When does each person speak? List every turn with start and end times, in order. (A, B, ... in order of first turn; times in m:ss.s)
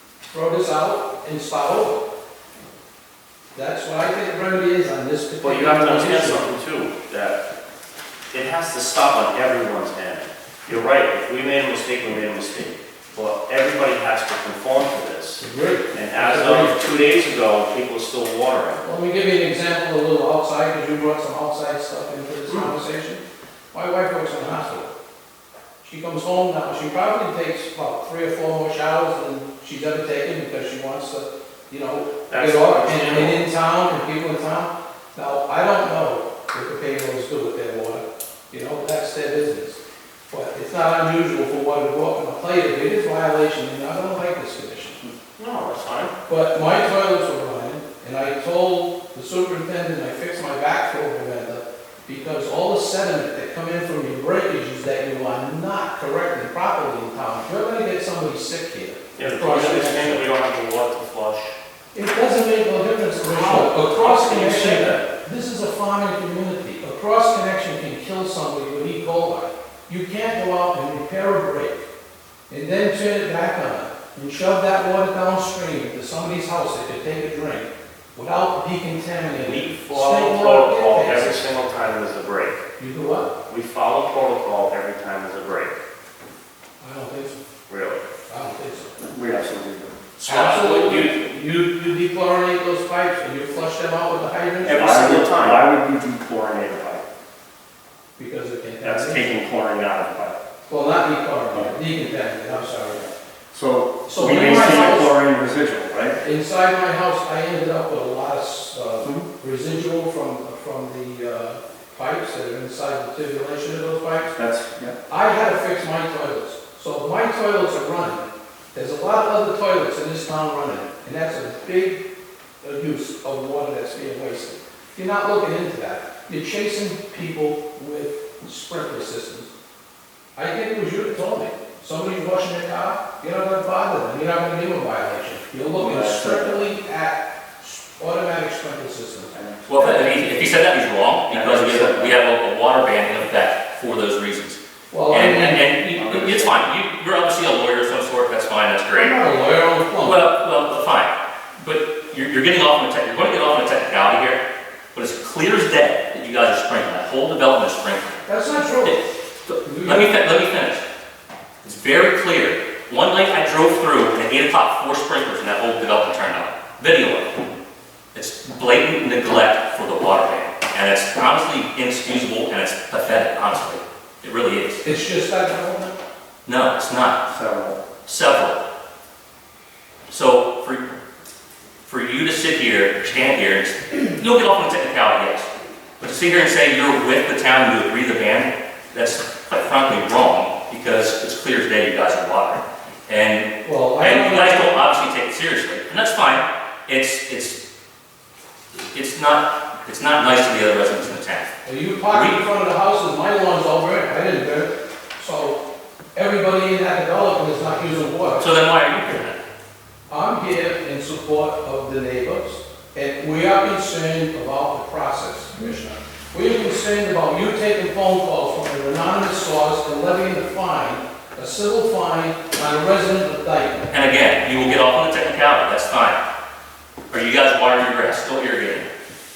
0:00.3-0:02.0 A
0:03.5-0:06.4 A
0:05.4-0:07.4 B
0:08.3-0:18.8 B
0:15.4-0:16.8 A
0:18.8-0:24.9 A
0:25.8-0:39.8 A
0:32.3-0:33.4 B
0:40.3-0:45.0 A
0:45.4-0:46.1 B
0:46.3-1:00.2 A
0:59.2-1:01.5 B
1:01.9-1:11.8 A
1:03.2-1:05.1 B
1:12.5-1:21.4 A
1:19.4-1:22.6 B
1:22.8-1:23.3 A
1:23.5-1:25.8 B
1:26.8-1:27.4 A
1:27.7-1:28.0 B
1:28.3-1:28.9 A
1:29.0-1:30.0 C
1:30.2-1:34.9 A
1:30.3-1:31.1 B
1:30.4-1:30.8 D
1:34.6-1:35.6 B
1:34.7-1:37.0 C
1:38.2-1:39.3 A
1:38.8-1:40.4 C
1:40.7-1:43.0 A
1:43.1-1:46.2 C
1:44.0-1:45.1 A
1:46.2-1:54.3 A
1:54.4-1:54.9 C
1:55.1-2:02.0 A
2:02.6-2:09.5 A
2:10.4-2:20.2 A
2:15.7-2:16.6 C
2:19.3-2:19.7 C
2:19.6-2:24.6 D
2:21.3-2:22.2 C
2:24.9-2:25.7 A
2:25.1-2:29.2 D
2:25.9-2:26.6 C
2:28.9-2:30.2 A
2:30.0-2:34.4 D
2:34.9-2:38.2 D
2:38.2-2:39.0 A
2:38.8-2:40.8 D
2:39.6-2:40.1 A
2:41.6-2:47.4 D
2:48.1-2:54.8 D
2:54.8-2:56.0 A
2:56.4-2:57.2 D
2:57.3-2:57.8 C
2:58.0-2:58.6 D
3:00.1-3:00.8 D
3:01.8-3:17.6 D
3:13.6-3:14.7 A
3:18.9-3:21.5 D
3:21.6-3:25.6 A
3:22.1-3:22.4 D
3:26.1-3:28.5 A
3:28.4-3:29.4 D
3:30.1-3:43.9 A
3:43.9-3:46.2 D
3:47.1-3:48.9 D